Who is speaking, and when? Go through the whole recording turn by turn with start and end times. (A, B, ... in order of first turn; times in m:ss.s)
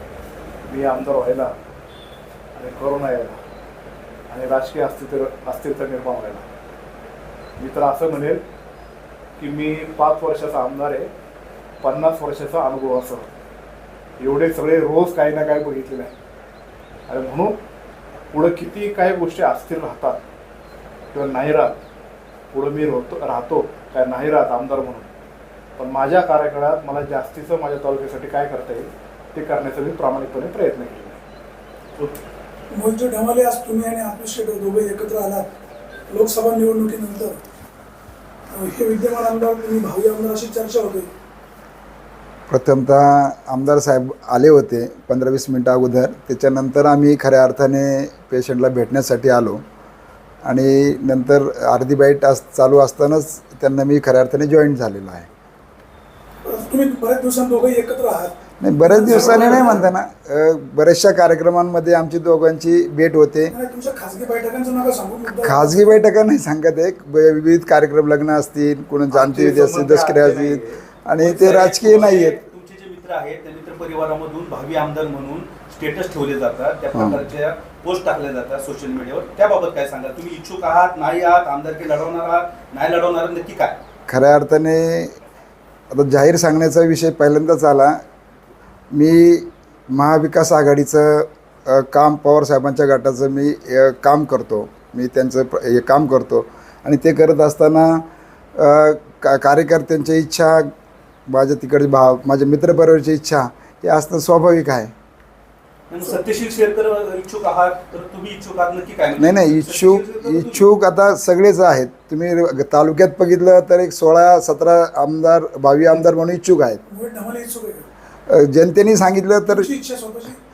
0:00.7-0:01.5 A
0:02.6-0:03.4 A
0:04.3-0:06.5 A
0:07.6-0:08.4 A
0:09.4-0:11.1 A
0:11.8-0:13.3 A
0:14.2-0:16.1 A
0:17.1-0:17.6 A
0:18.3-0:20.2 A
0:21.1-0:21.8 A
0:22.5-0:25.1 A
0:25.8-0:31.2 A
0:32.7-0:35.4 B
0:36.1-0:37.4 B
0:38.5-0:41.1 B
0:42.5-0:49.6 C
0:50.4-0:55.3 C
0:56.4-0:59.9 B
0:58.6-1:03.5 C
0:59.3-0:59.7 A
1:03.5-1:05.8 B
1:05.4-1:12.4 C
1:09.1-1:10.4 D
1:09.2-1:10.7 A
1:11.2-1:23.8 D
1:16.9-1:17.2 C
1:24.1-1:25.1 C
1:25.9-1:28.0 C
1:28.9-1:38.0 C
1:38.6-1:40.7 C
1:41.3-1:44.9 C
1:45.9-1:50.6 D
1:49.2-1:56.8 C
1:56.9-1:57.9 B
1:58.3-1:59.7 C
1:59.5-2:00.4 B